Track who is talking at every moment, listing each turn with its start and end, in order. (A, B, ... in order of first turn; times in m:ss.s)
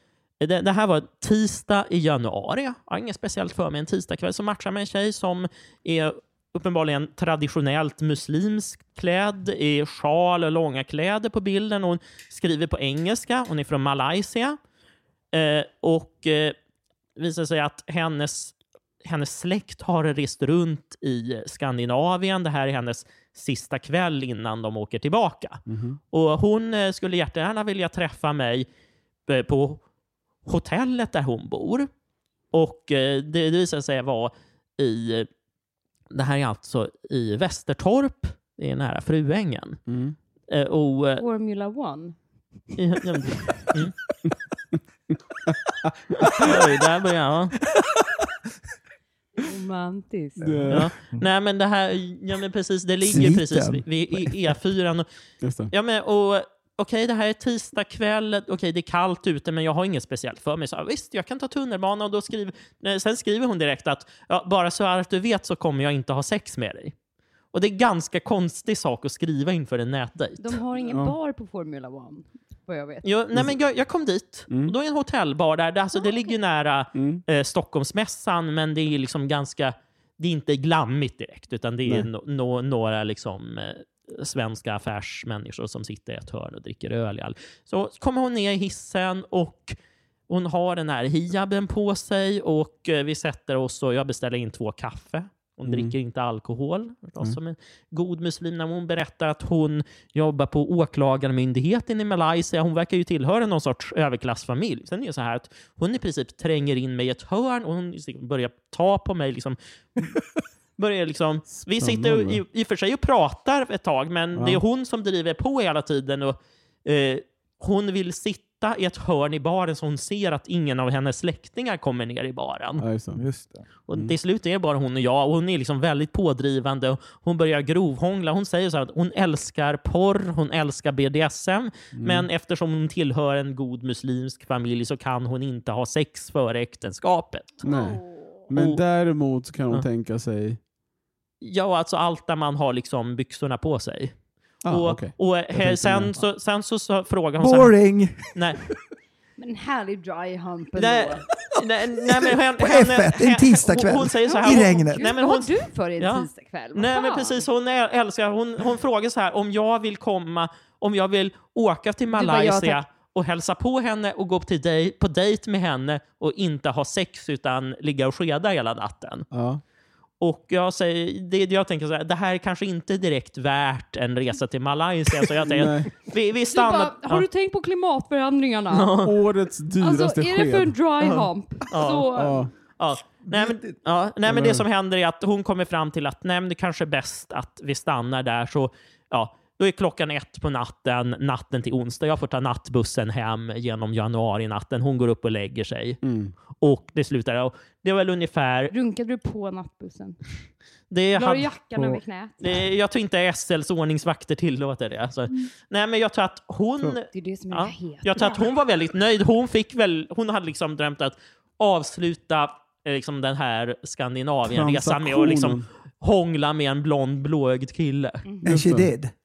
0:00.4-0:14.6 A
0:15.3-0:16.5 A
0:17.2-0:28.7 A
0:25.7-0:26.0 B
0:29.3-0:29.8 A
0:30.4-0:31.9 A
0:32.5-0:35.3 A
0:36.1-0:39.8 A
0:39.9-0:40.2 B
0:40.5-0:41.2 A
0:41.2-0:42.2 C
0:42.8-0:43.9 A
0:45.5-0:46.5 B
0:46.4-0:47.6 A
0:49.4-0:50.6 C
0:50.4-0:50.9 B
0:50.7-0:55.1 A
0:53.0-0:54.5 D
0:55.4-0:55.7 B
0:55.7-1:06.9 A
1:07.5-1:10.6 A
1:10.4-1:13.0 C
1:13.0-1:29.8 A
1:14.5-1:14.8 B
1:16.9-1:17.2 B
1:30.3-1:49.6 A
1:35.6-1:36.0 B
1:50.8-2:02.8 A
1:51.5-1:52.4 B
1:54.3-1:54.6 B
2:02.8-2:03.3 B
2:03.2-2:03.6 D
2:03.9-2:17.6 A
2:11.9-2:12.3 B
2:17.6-2:18.4 C
2:17.6-2:20.6 B
2:18.5-2:18.8 A
2:21.4-2:28.6 A
2:24.6-2:26.2 B
2:27.4-2:28.3 D
2:29.4-2:31.2 C
2:30.8-2:49.3 A
2:32.0-2:35.0 D
2:34.3-2:37.4 C
2:42.1-2:42.8 C
2:49.3-2:49.6 B
2:50.2-2:57.2 A
2:55.4-2:55.9 B
2:56.5-2:59.0 C
2:58.7-2:59.1 A
2:59.0-3:00.7 B
2:59.8-3:02.4 C
3:01.0-3:18.7 A
3:02.1-3:02.5 B
3:03.2-3:03.7 D
3:04.3-3:04.6 B
3:16.0-3:16.3 B
3:18.7-3:20.2 C
3:20.9-3:21.5 A
3:21.1-3:22.6 C
3:21.8-3:22.0 B
3:22.4-3:38.2 A
3:27.1-3:28.4 C
3:34.4-3:35.7 B
3:38.2-3:38.5 C
3:38.4-3:39.1 D
3:38.5-3:38.9 B